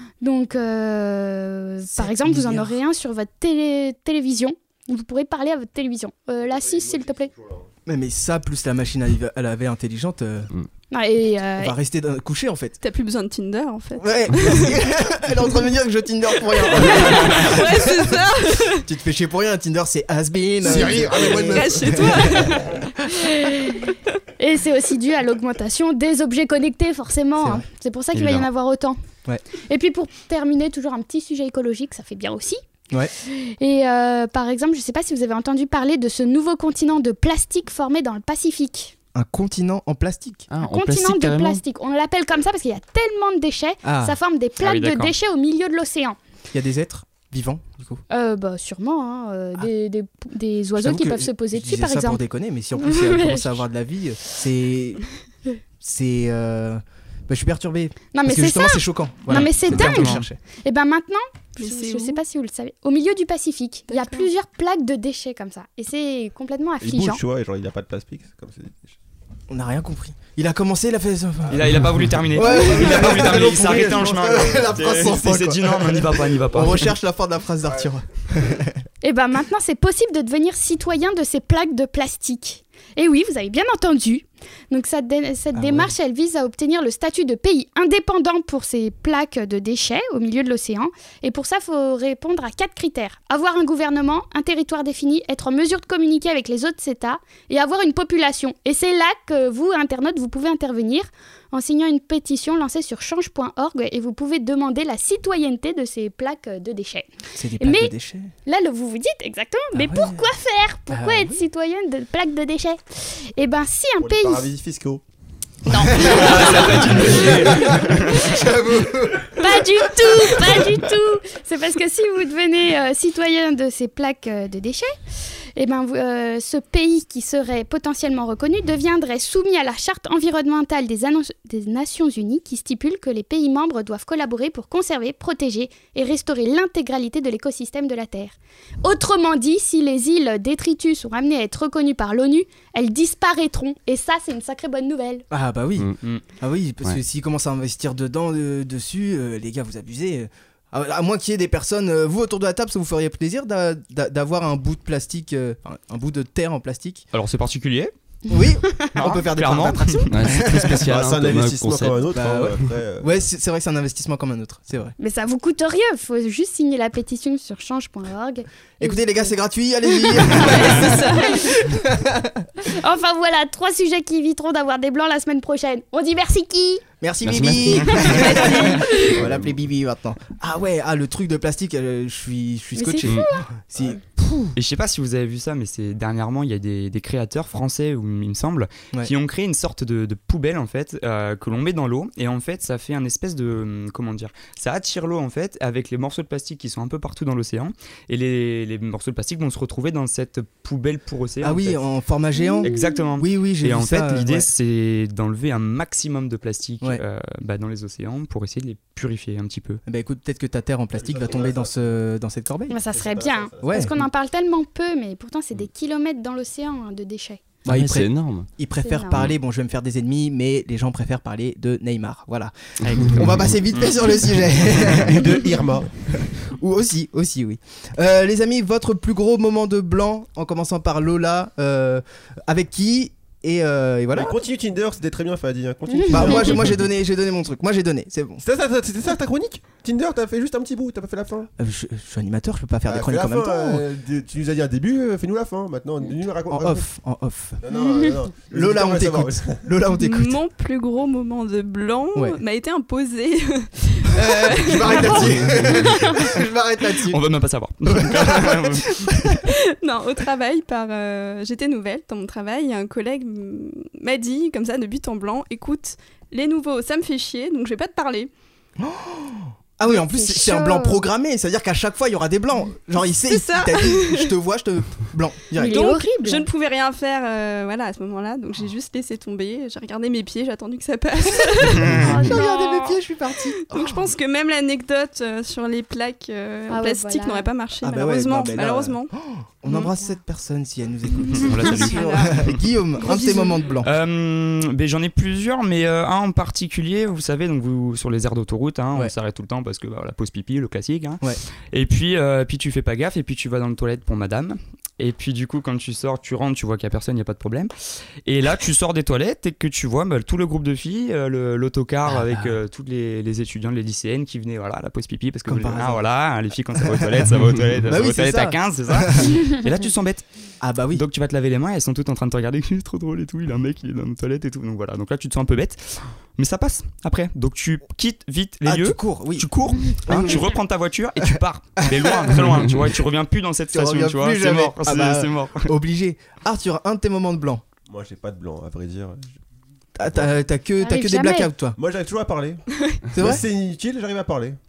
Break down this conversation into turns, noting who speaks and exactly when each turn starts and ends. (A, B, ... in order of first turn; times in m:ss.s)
0:00.2-0:07.3 A
0:01.9-0:02.8 B
0:06.4-0:07.6 C
0:07.9-0:10.5 B
0:10.9-0:11.8 A
0:11.6-0:12.8 B
0:12.8-0:14.8 D
0:14.0-0:18.1 B
0:16.6-0:18.9 D
0:18.8-0:22.3 B
0:20.6-0:22.5 C
0:21.4-0:22.9 D
0:23.2-0:23.8 A
0:24.4-0:29.0 A
0:27.4-0:27.6 B
0:28.1-0:28.5 E
0:29.7-0:32.6 A
0:33.2-0:38.9 A
0:39.1-0:40.5 B
0:40.5-0:41.6 E
0:40.6-0:46.2 A
0:43.8-0:44.2 B
0:44.6-0:45.1 F
0:46.5-0:48.0 B
0:48.1-0:52.2 A
0:50.8-0:55.0 B
0:52.8-0:53.6 A
0:55.8-1:00.4 B
0:58.1-1:07.2 A
0:59.3-1:00.2 F
1:01.6-1:02.2 D
1:03.9-1:04.3 D
1:06.8-1:09.0 C
1:09.5-1:18.8 B
1:11.5-1:16.9 F
1:12.4-1:15.1 C
1:19.0-1:47.9 A
1:25.5-1:25.9 B
1:47.4-1:48.3 B
1:48.4-1:52.8 A
1:49.8-1:50.2 B
1:50.9-1:51.4 B
1:53.4-1:54.5 A
1:54.0-1:55.0 C
1:55.7-1:56.3 A
1:55.9-1:59.4 B
1:56.0-1:58.3 F
1:56.1-1:58.0 C
1:59.4-2:04.9 A
2:05.6-2:25.2 A
2:25.3-2:25.9 B
2:26.4-2:37.0 B
2:37.1-2:37.9 F
2:38.3-2:40.9 B
2:38.3-2:38.9 A
2:39.0-2:40.0 F
2:40.1-2:42.0 E
2:40.8-2:43.1 C
2:42.1-2:44.9 B
2:45.0-2:49.3 A
2:48.8-2:52.5 B
2:50.2-2:51.4 A
2:50.2-2:51.5 D
2:52.6-2:56.8 A
2:57.0-3:04.5 B
2:57.2-2:58.0 E
2:58.0-2:59.1 D
2:59.1-2:59.6 C
3:02.8-3:03.4 A
3:04.6-3:21.8 F
3:21.4-3:24.5 B
3:22.4-3:23.0 A
3:22.6-3:29.8 F
3:29.9-3:32.8 B
3:30.9-3:31.9 C
3:32.7-3:37.4 A
3:32.9-3:34.0 C
3:33.6-3:33.9 B
3:37.6-3:45.5 B
3:37.7-3:38.5 E
3:38.8-3:39.3 A
3:42.8-3:43.6 E
3:44.8-3:45.9 C
3:46.1-3:54.3 B
3:54.1-3:56.8 C
3:55.9-3:56.6 A
3:56.1-3:58.4 B
3:58.4-4:01.5 C
4:01.6-4:03.8 B
4:02.8-4:06.9 C
4:06.5-4:07.6 B
4:07.6-4:09.7 C
4:08.5-4:10.4 B
4:10.0-4:16.4 D
4:14.1-4:17.2 B
4:17.1-4:19.1 F
4:18.0-4:19.1 B
4:19.8-4:28.3 D
4:28.8-4:35.8 B
4:29.9-4:31.0 A
4:33.3-4:34.3 D
4:35.6-4:36.5 A
4:35.6-4:42.5 D
4:42.0-4:43.0 A
4:42.1-4:44.0 B
4:43.6-4:49.1 D
4:46.7-4:47.5 A
4:47.8-4:53.9 B
4:51.3-4:52.5 F
4:51.6-4:52.4 D
4:53.0-4:53.6 D
4:53.8-5:07.7 F
5:08.2-5:20.2 F
5:12.1-5:12.5 B
5:15.5-5:16.0 B
5:16.8-5:17.2 B
5:17.9-5:19.4 B
5:20.6-5:21.0 B
5:20.9-5:35.6 F
5:28.6-5:30.4 B
5:31.3-5:32.4 B
5:33.7-5:37.6 B
5:37.9-5:39.4 C
5:40.0-5:41.8 B
5:40.0-5:40.3 C
5:40.8-5:41.5 A
5:41.8-5:44.6 C
5:43.1-5:43.4 B